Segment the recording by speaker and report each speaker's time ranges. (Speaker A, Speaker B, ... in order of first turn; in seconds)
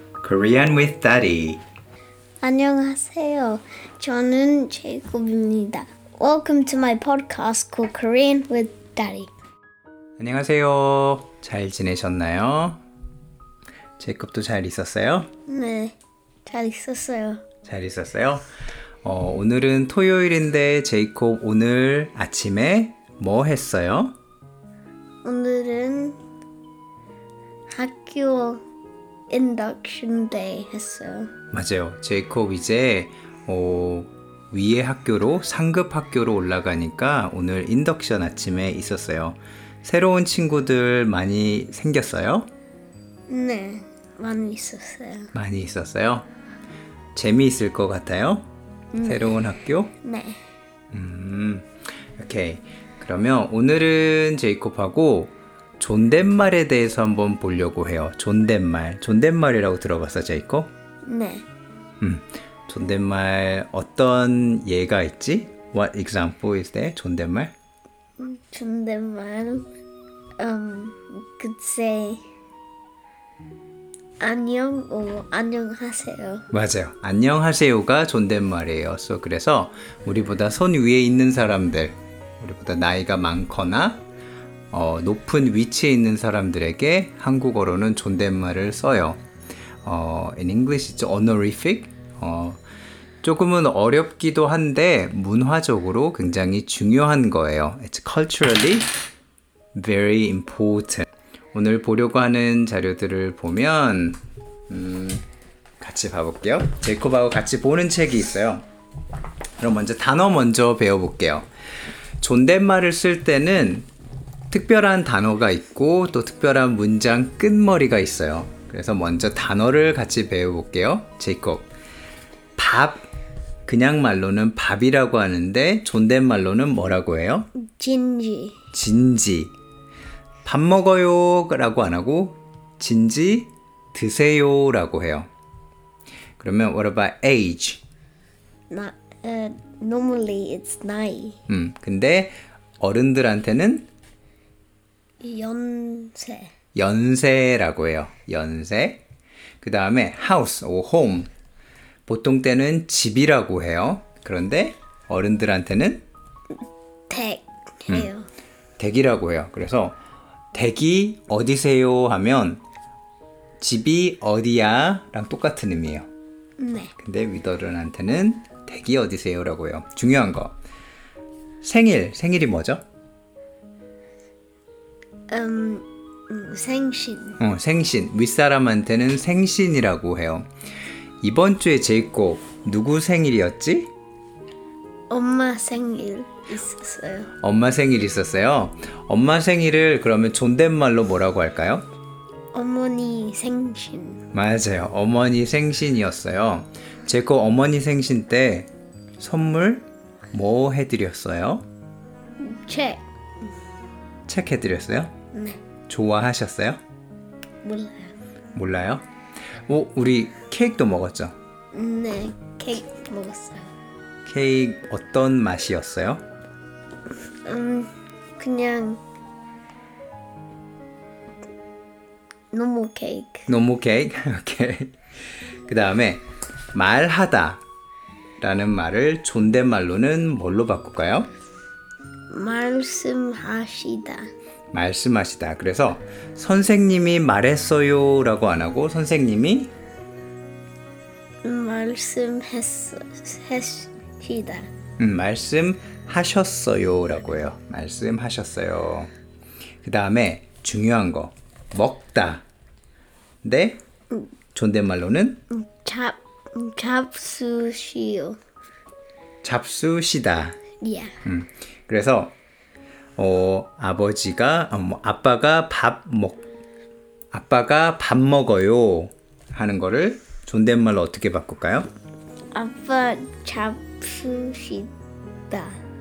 Speaker A: 0.2-1.6, 10.2-12.8, 14.0-15.3, 17.6-18.5, 19.0-24.1, 31.5-42.5, 45.4-46.3, 47.1-48.5, 49.0-49.9, 50.9-60.7, 62.0-67.5, 76.5-84.0, 84.7-89.2, 89.8-92.6, 93.2-98.9, 99.8-105.2, 105.8-108.7, 109.6-111.5, 112.2-113.9, 114.5-121.7, 122.6-123.1, 123.7-127.5, 128.7-129.5, 130.4-135.3, 136.4-137.8, 141.5-143.9, 146.8-149.0, 149.6-151.3, 152.1-156.0, 158.8-160.0, 160.5-162.6, 163.6-166.1, 167.0-170.5, 171.6-172.8, 177.4-180.5, 181.2-183.9, 187.4-191.9, 194.3-201.7, 204.3-205.1, 205.9-206.8, 208.6-209.0, 209.7-211.3, 214.3-216.2, 223.5-224.9, 225.7-227.6, 228.4-231.3, 234.7-239.7, 245.0-249.1, 249.8-252.4, 253.4-253.8, 254.6-255.4, 259.4-260.6, 261.2-262.4, 263.2-266.4, 267.3-271.9
Speaker B: 2.4-9.3, 15.5-17.4, 25.2-26.2, 27.7-28.6, 29.3-31.3, 43.3-45.3, 48.9-49.4, 50.0-50.4, 61.0-61.5, 68.2-69.7, 70.4-72.2, 74.2-76.5, 127.6-128.6, 138.7-141.4, 145.2-146.5, 157.1-158.3, 166.6-166.9, 175.3-177.4, 185.1-187.3, 192.5-194.2, 202.4-203.0, 205.3-205.6, 207.6-208.1, 211.7-213.7, 217.4-219.0, 222.5-223.5, 232.3-234.3, 241.4-244.7, 255.5-258.4, 260.8-261.2, 272.5-274.9, 275.5-275.8